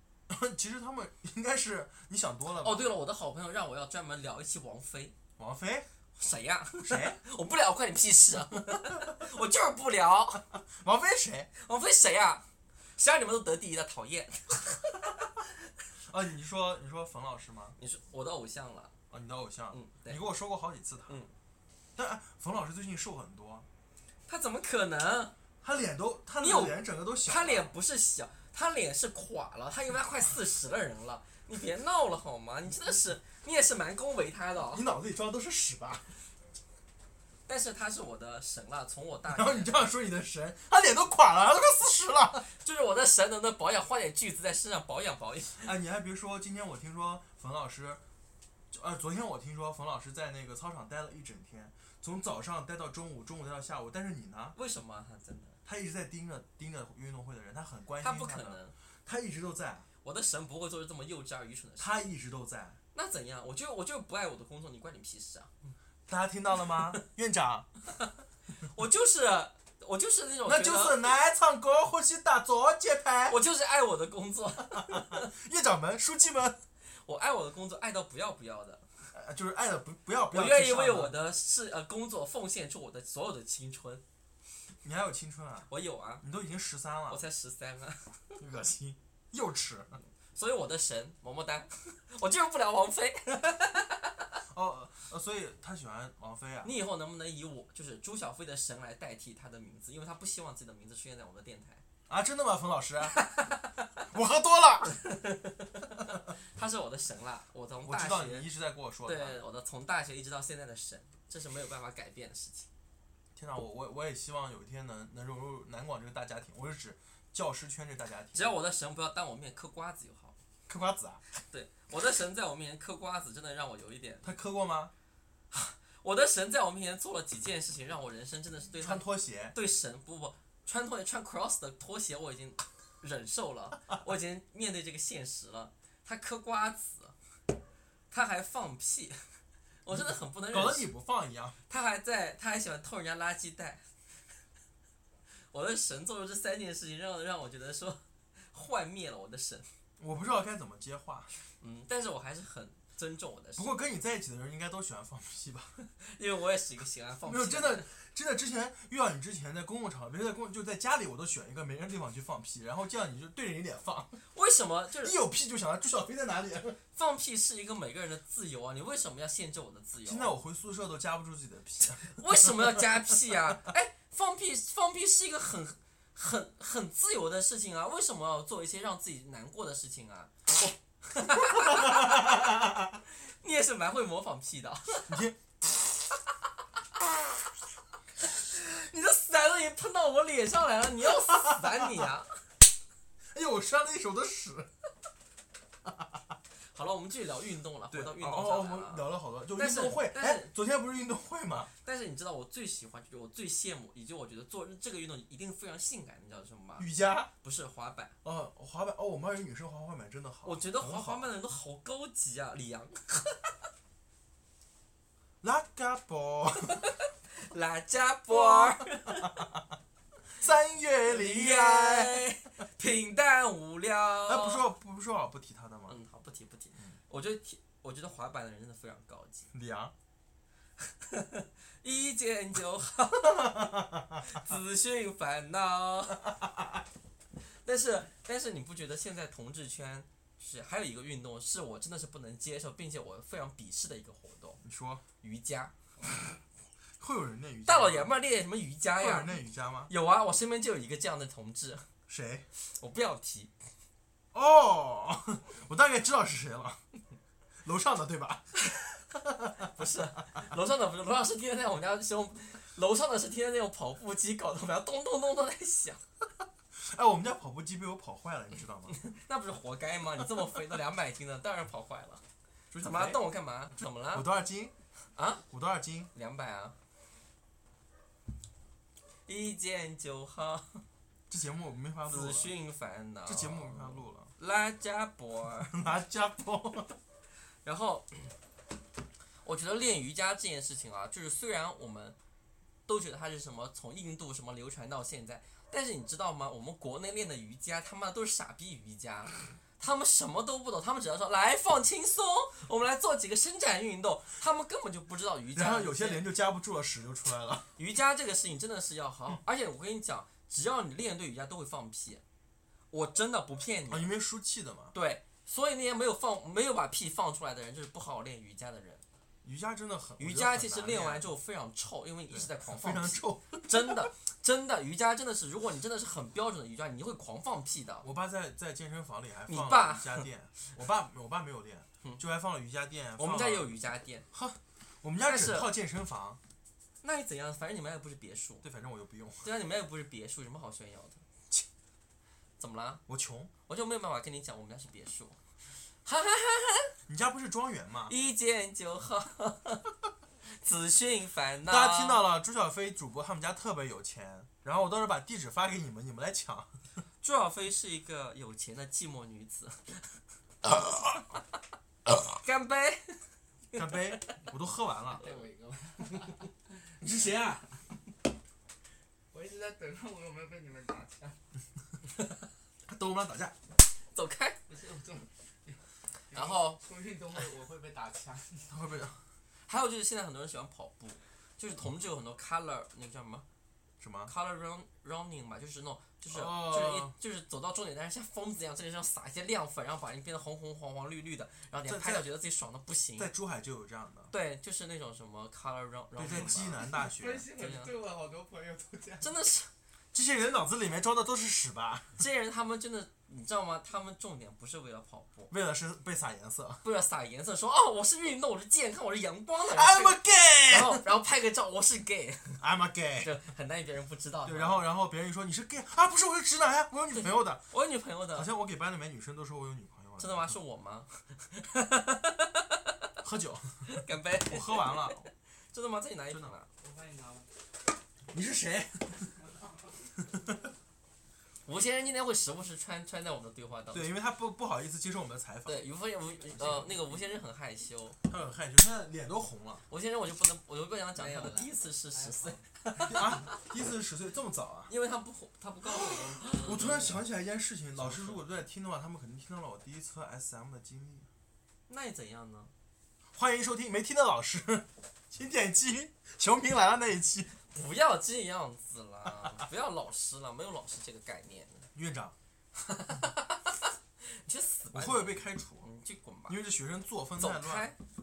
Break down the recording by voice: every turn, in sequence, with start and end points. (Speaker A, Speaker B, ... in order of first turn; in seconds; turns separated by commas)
Speaker A: 0.3-2.9, Speaker B: 2.6-5.1, Speaker A: 5.4-5.9, Speaker B: 6.2-10.4, Speaker A: 6.8-7.2, Speaker A: 8.5-9.1, Speaker A: 10.5-11.5, Speaker B: 11.6-12.4, Speaker B: 13.0-15.3, Speaker A: 16.1-17.8, Speaker B: 17.8-18.9, Speaker A: 19.1-21.2, Speaker B: 19.7-20.2, Speaker A: 21.9-23.7, Speaker B: 24.3-25.3, Speaker A: 25.6-27.7, Speaker B: 26.4-34.8, Speaker A: 34.7-36.1, Speaker B: 37.5-39.8, Speaker A: 39.3-42.5, Speaker B: 42.5-45.7, Speaker A: 45.6-48.0, Speaker A: 48.7-54.5, Speaker B: 54.5-55.6, Speaker A: 55.6-59.9, Speaker B: 58.0-58.7, Speaker B: 60.0-62.0, Speaker A: 61.8-62.8, Speaker B: 62.9-65.5, Speaker A: 66.1-67.7, Speaker B: 68.6-71.0, Speaker A: 70.4-73.4, Speaker B: 73.3-75.3, Speaker A: 74.7-76.6, Speaker B: 77.0-78.8, Speaker A: 79.1-81.2, Speaker B: 80.3-84.0, Speaker A: 84.8-87.2, Speaker B: 85.7-86.2, Speaker B: 87.1-88.1, Speaker A: 88.4-90.0, Speaker B: 90.3-94.2, Speaker A: 94.5-96.7, Speaker B: 96.6-101.8, Speaker A: 102.1-103.2, Speaker B: 103.1-103.7, Speaker A: 104.0-104.9, Speaker B: 105.0-108.5, Speaker A: 107.8-109.4, Speaker B: 109.0-112.7, Speaker A: 113.3-118.5, Speaker B: 118.3-120.3, Speaker A: 120.7-121.2, Speaker B: 121.5-124.3, Speaker A: 124.2-124.9, Speaker B: 125.5-137.1, Speaker A: 128.8-129.6, Speaker B: 138.1-139.2, Speaker B: 139.8-140.9, Speaker A: 139.9-141.6, Speaker B: 141.7-143.8, Speaker B: 145.5-149.7, Speaker A: 150.0-151.3, Speaker B: 151.6-153.7, Speaker A: 153.6-155.7, Speaker B: 156.0-157.9, Speaker A: 157.2-164.2, Speaker B: 164.3-165.2, Speaker A: 165.0-166.8, Speaker B: 166.9-170.3, Speaker A: 170.0-173.5, Speaker B: 172.1-180.5, Speaker B: 181.1-182.4, Speaker A: 181.3-183.0, Speaker B: 183.4-185.2, Speaker A: 185.1-185.4, Speaker B: 188.3-192.3, Speaker A: 191.2-192.1, Speaker A: 193.3-194.7, Speaker B: 196.7-200.5, Speaker A: 197.9-201.7, Speaker B: 201.8-206.9, Speaker A: 206.8-207.3, Speaker B: 207.4-208.1, Speaker A: 208.2-211.3, Speaker B: 210.4-213.5, Speaker A: 215.4-216.9, Speaker B: 216.9-219.4, Speaker A: 218.3-219.6, Speaker A: 220.3-222.2, Speaker B: 221.1-224.7, Speaker A: 224.2-226.0, Speaker B: 225.9-229.5, Speaker A: 229.5-229.9, Speaker B: 231.0-233.7, Speaker A: 233.2-234.4, Speaker B: 234.2-236.3, Speaker B: 237.5-244.6, Speaker A: 244.6-245.0, Speaker B: 245.2-245.7, Speaker A: 247.0-248.1, Speaker B: 247.7-249.3, Speaker A: 248.9-249.9, Speaker B: 249.9-251.8, Speaker A: 252.1-252.4, Speaker B: 252.7-253.5, Speaker A: 254.3-256.8, Speaker A: 257.6-258.5, Speaker A: 259.1-259.7, Speaker B: 259.6-266.0, Speaker A: 266.8-268.9, Speaker B: 268.9-272.2, Speaker A: 272.7-273.2, Speaker B: 272.8-274.3, Speaker A: 274.1-274.7, Speaker B: 275.1-275.4, Speaker A: 275.5-276.1, Speaker B: 276.1-276.7, Speaker B: 279.3-280.8, Speaker A: 281.3-282.5, Speaker B: 282.1-285.8, Speaker A: 283.2-284.3, Speaker A: 285.7-286.9, Speaker B: 287.6-288.3, Speaker B: 289.4-292.1, Speaker B: 292.9-306.2, Speaker A: 305.5-307.7, Speaker B: 307.8-312.2, Speaker B: 312.9-314.1, Speaker A: 313.9-314.9, Speaker B: 314.9-319.0, Speaker A: 319.4-321.3, Speaker B: 320.2-328.1, Speaker A: 322.3-324.1, Speaker A: 328.0-333.7, Speaker B: 329.5-330.3, Speaker B: 333.2-334.3, Speaker A: 334.3-336.4, Speaker B: 335.2-335.7, Speaker B: 337.0-338.6, Speaker A: 338.6-339.5, Speaker B: 339.4-341.2, Speaker B: 342.6-343.0, Speaker A: 343.1-343.5, Speaker B: 343.7-345.4, Speaker B: 346.0-346.9, Speaker A: 347.1-348.1, Speaker B: 348.1-349.9, Speaker B: 350.5-352.2, Speaker A: 351.7-356.7, Speaker B: 357.2-360.1, Speaker B: 362.3-363.2, Speaker B: 363.7-364.2, Speaker A: 363.7-365.3, Speaker C: 365.1-367.7, Speaker A: 367.0-367.6, Speaker C: 369.3-371.4, Speaker A: 372.9-373.5, Speaker B: 374.1-374.6, Speaker C: 374.7-375.8, Speaker C: 376.3-378.8, Speaker B: 376.3-376.8, Speaker A: 378.7-379.2, Speaker B: 379.7-383.4, Speaker A: 384.0-384.3, Speaker B: 384.3-393.3, Speaker A: 386.3-387.1, Speaker A: 391.8-392.3, Speaker A: 393.2-394.3, Speaker B: 394.3-396.8, Speaker A: 396.1-397.5, Speaker C: 396.3-399.3, Speaker B: 397.5-397.9, Speaker B: 399.2-399.7, Speaker A: 400.1-402.1, Speaker B: 402.2-405.5, Speaker A: 405.5-406.8, Speaker B: 406.8-412.6, Speaker A: 409.6-411.0, Speaker A: 412.6-413.3, Speaker B: 413.2-414.8, Speaker A: 414.4-417.6, Speaker B: 417.1-418.5, Speaker A: 418.3-420.6, Speaker B: 420.2-422.8, Speaker A: 423.2-423.9, Speaker B: 423.9-425.2, Speaker A: 424.4-425.3, Speaker B: 425.7-426.7, Speaker C: 426.8-427.5, Speaker A: 428.3-429.3, Speaker C: 429.4-429.7, Speaker B: 431.6-434.1, Speaker A: 433.9-435.9, Speaker B: 435.6-438.2, Speaker A: 436.5-436.9, Speaker A: 438.3-439.8, Speaker B: 439.9-443.5, Speaker C: 441.1-442.6, Speaker A: 443.0-444.9, Speaker B: 444.9-447.2, Speaker A: 445.9-451.3, Speaker B: 448.0-448.4, Speaker B: 451.9-452.7, Speaker A: 453.3-457.5, Speaker B: 457.7-461.9, Speaker A: 461.9-462.4, Speaker B: 462.8-466.6, Speaker A: 464.9-465.9, Speaker A: 466.5-467.9, Speaker B: 467.4-468.0